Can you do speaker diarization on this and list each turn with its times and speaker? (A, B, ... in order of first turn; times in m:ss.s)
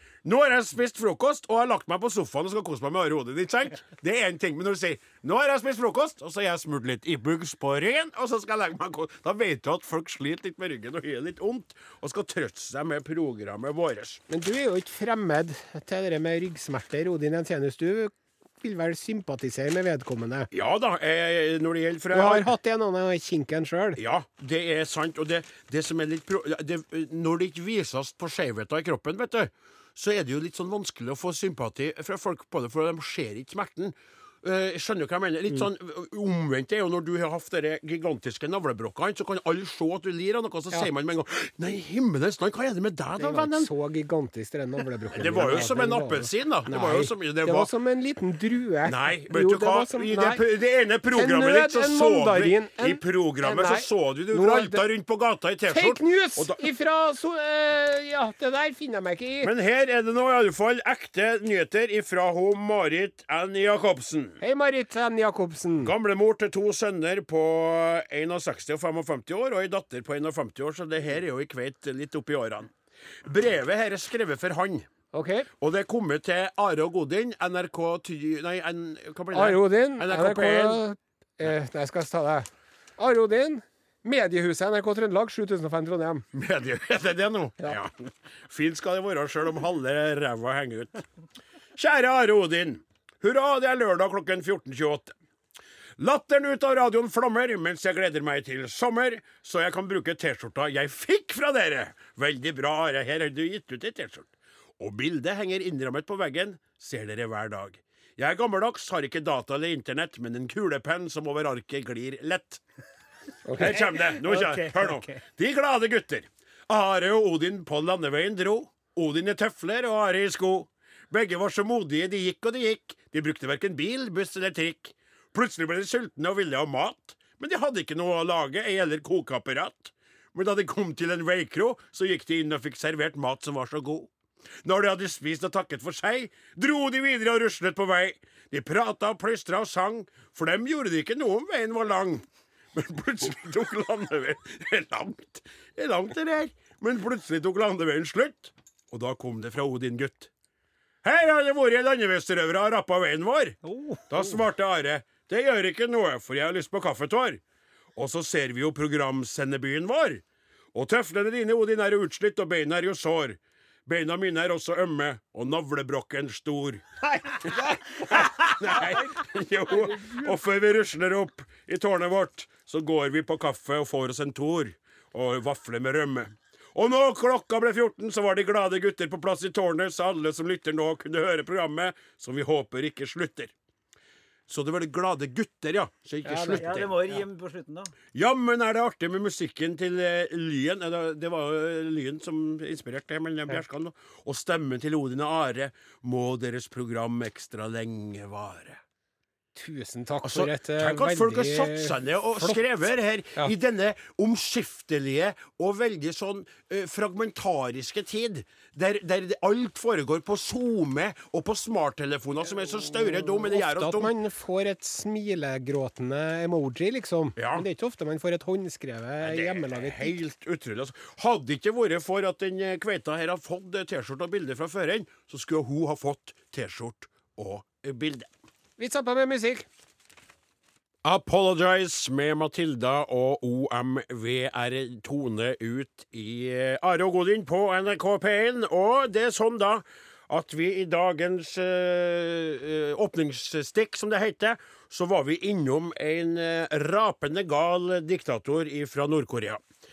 0:00.2-0:14.2 A
0:14.3-0:20.5 B
0:20.5-0:22.5 A
0:22.1-0:24.0 B
0:24.0-0:43.7 A
0:43.2-0:50.4 B
0:45.2-0:47.7 A
0:48.8-0:56.6 A
0:51.1-0:54.8 B
0:55.7-0:59.5 B
0:59.4-1:04.4 A
1:04.4-1:05.9 B
1:05.8-1:12.7 A
1:13.2-1:14.9 A
1:15.1-1:15.5 B
1:15.6-1:20.8 A
1:19.3-1:22.5 B
1:23.0-1:26.3 B
1:26.3-1:31.0 A
1:31.8-1:35.2 A
1:36.0-1:52.6 A
1:53.4-1:53.8 B
1:53.5-2:14.1 A
1:53.6-1:55.2 C
2:14.6-2:30.3 A
2:31.0-2:33.6 A
2:33.6-2:34.1 C
2:34.1-2:37.4 A
2:38.0-2:40.2 A
2:40.7-3:03.5 A
2:47.4-2:48.3 C
3:04.5-3:07.0 A
3:06.2-3:06.6 B
3:06.5-3:07.9 C
3:08.1-3:18.8 A
3:19.6-3:22.6 B
3:20.2-3:34.1 A
3:33.3-3:40.2 B
3:37.4-3:37.7 A
3:39.2-3:48.3 A
3:48.8-3:49.7 B
3:51.0-4:09.6 A